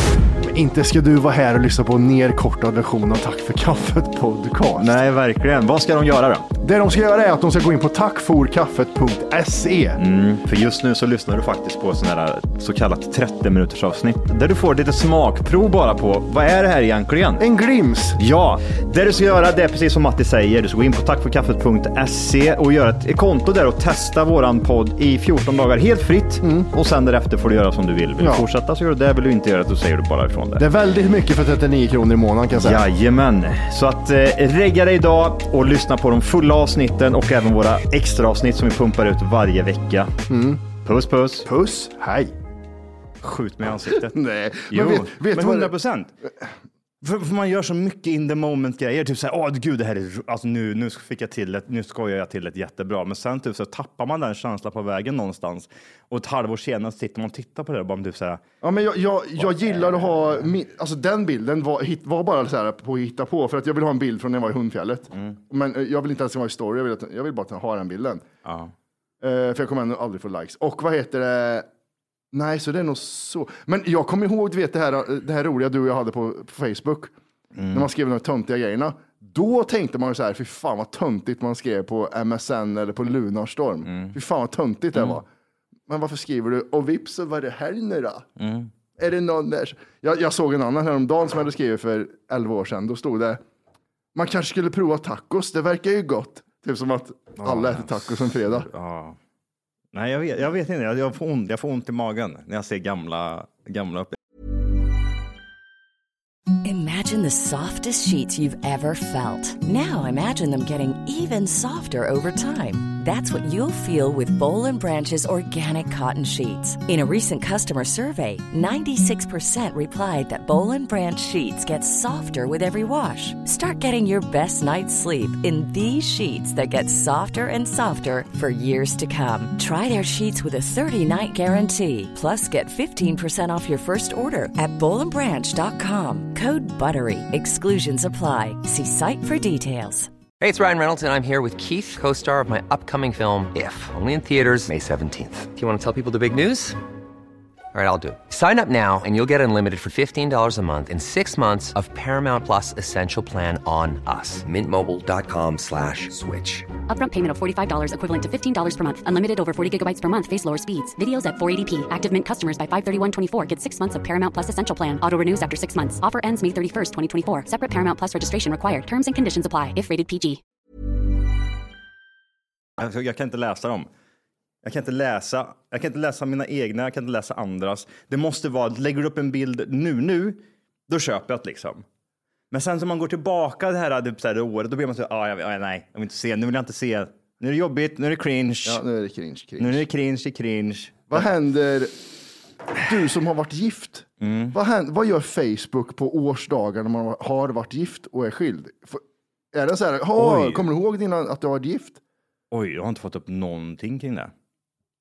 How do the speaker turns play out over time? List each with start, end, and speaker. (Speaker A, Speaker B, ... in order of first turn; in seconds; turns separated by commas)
Speaker A: 0.4-5.0, Speaker B: 4.8-6.5, Speaker A: 6.6-10.0, Speaker B: 10.0-17.4, Speaker A: 17.4-18.2, Speaker B: 18.2-30.7, Speaker A: 26.4-26.7, Speaker A: 28.2-28.5, Speaker A: 30.6-32.8, Speaker B: 32.6-40.1, Speaker A: 40.3-40.6, Speaker B: 40.8-41.5, Speaker A: 41.5-42.4, Speaker B: 43.2-46.1, Speaker A: 44.0-45.7, Speaker B: 47.0-58.4, Speaker A: 58.6-68.2, Speaker B: 59.4-60.5, Speaker B: 68.5-68.7, Speaker A: 69.2-71.7, Speaker A: 72.3-77.1, Speaker B: 77.5-77.9, Speaker A: 77.7-85.3, Speaker B: 83.8-84.2, Speaker B: 85.0-85.2, Speaker A: 85.9-88.3, Speaker B: 88.4-88.7, Speaker A: 89.0-93.4, Speaker A: 94.1-98.7, Speaker B: 97.4-99.2, Speaker B: 99.9-104.2, Speaker C: 106.6-140.1, Speaker D: 140.4-146.8, Speaker D: 147.7-156.7, Speaker E: 156.9-170.4, Speaker B: 172.8-173.9, Speaker B: 174.6-181.8, Speaker B: 182.5-188.8, Speaker A: 188.6-189.8, Speaker B: 189.6-191.2, Speaker A: 191.1-191.9, Speaker A: 192.8-199.0, Speaker B: 194.2-194.6, Speaker A: 199.5-202.0, Speaker B: 200.2-200.7, Speaker B: 202.5-204.3